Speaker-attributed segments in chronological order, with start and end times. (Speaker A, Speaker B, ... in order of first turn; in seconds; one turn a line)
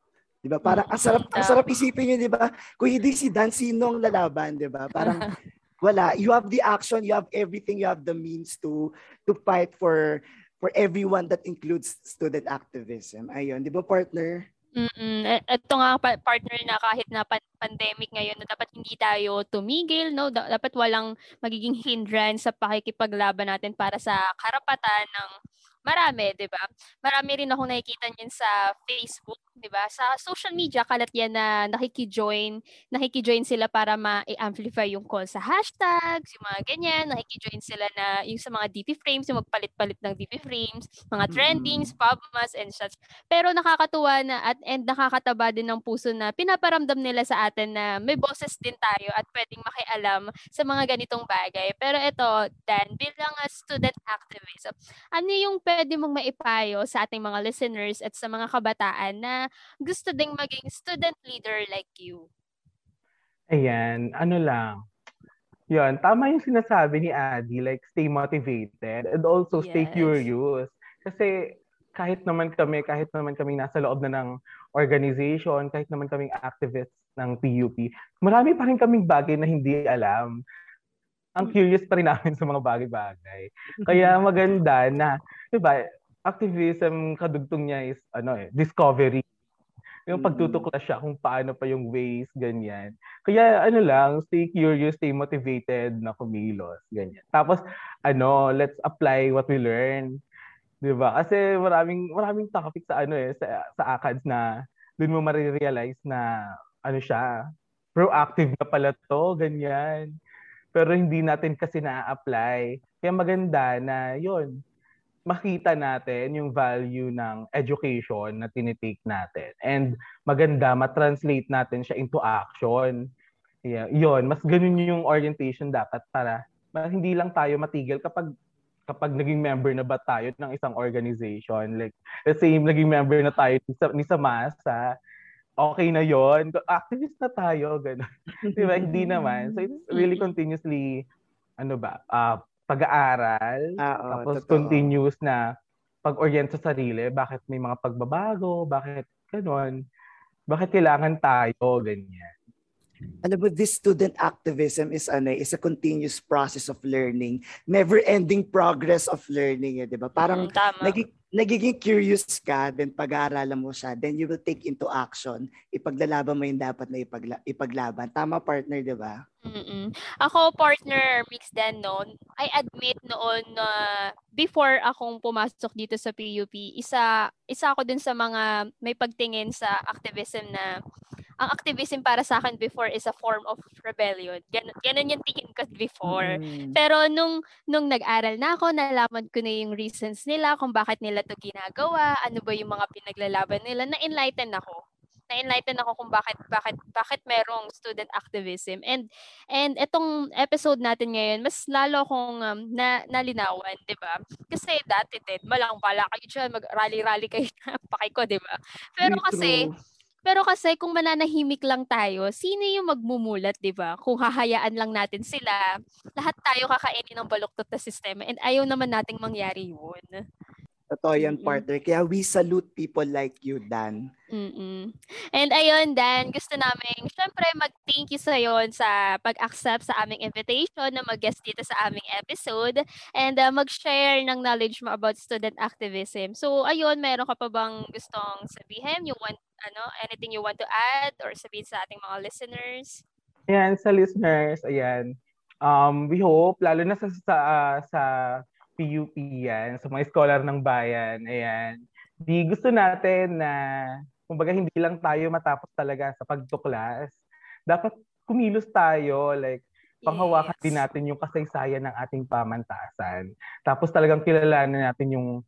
Speaker A: 0.4-5.3
Speaker B: 0.7-1.6
Speaker B: 5.0-5.3
Speaker A: 5.8-14.4
Speaker B: 14.8-25.3
Speaker B: 25.9-62.3
Speaker A: 41.3-41.9
Speaker C: 63.5-64.8
Speaker C: 65.7-71.3
Speaker B: 69.5-70.2
Speaker C: 72.0-80.4
Speaker C: 81.3-89.2
Speaker A: 83.8-84.1
Speaker C: 90.1-100.2
Speaker A: 90.1-90.7
Speaker C: 100.8-106.3
Speaker C: 106.8-107.3
Speaker C: 107.9-110.1
Speaker C: 110.7-114.6
Speaker C: 115.3-123.0
Speaker C: 123.7-128.3
Speaker C: 128.9-134.8
Speaker C: 135.6-141.0
Speaker A: 138.4-138.9
Speaker B: 138.8-140.3
Speaker C: 141.6-145.4
Speaker A: 143.8-144.9
Speaker C: 146.0-149.8
Speaker C: 150.5-152.3
Speaker A: 153.2-169.1
Speaker B: 160.2-160.9
Speaker B: 169.4-180.7
Speaker B: 181.4-194.8
Speaker A: 186.0-186.8
Speaker B: 195.3-209.6
Speaker A: 209.0-209.7
Speaker B: 210.2-220.2
Speaker A: 220.9-224.0
Speaker B: 221.2-221.6
Speaker B: 224.3-243.0
Speaker C: 243.5-245.1
Speaker C: 245.6-248.1
Speaker C: 248.8-253.6
Speaker C: 254.3-265.3
Speaker B: 260.0-260.8